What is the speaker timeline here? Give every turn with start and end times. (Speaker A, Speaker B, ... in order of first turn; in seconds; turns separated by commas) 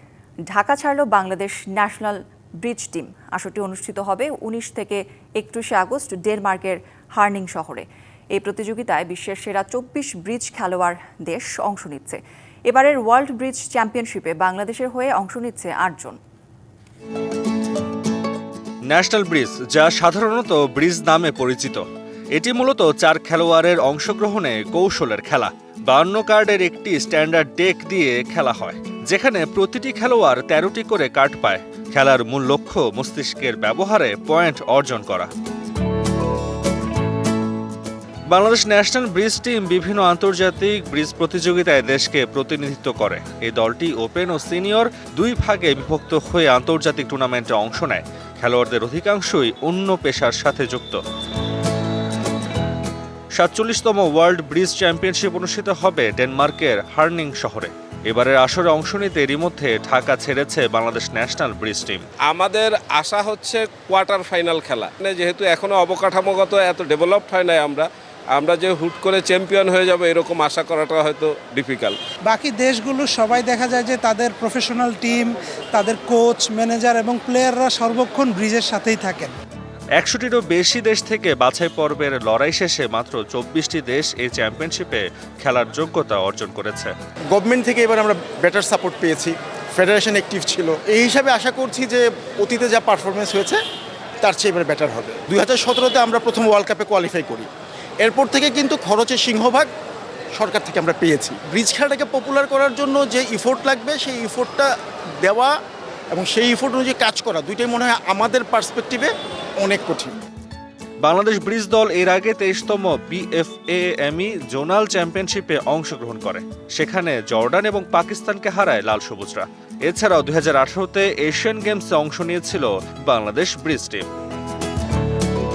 Speaker A: 0.5-16.2, Speaker B: 18.9-35.3, Speaker B: 38.3-51.0, Speaker B: 53.4-62.0, Speaker C: 62.3-72.0, Speaker D: 72.2-79.3, Speaker B: 80.0-86.9, Speaker E: 87.3-93.6, Speaker E: 94.2-97.5, Speaker E: 98.0-99.7, Speaker E: 100.3-104.7, Speaker E: 105.2-105.5, Speaker E: 106.1-110.1, Speaker B: 111.0-124.1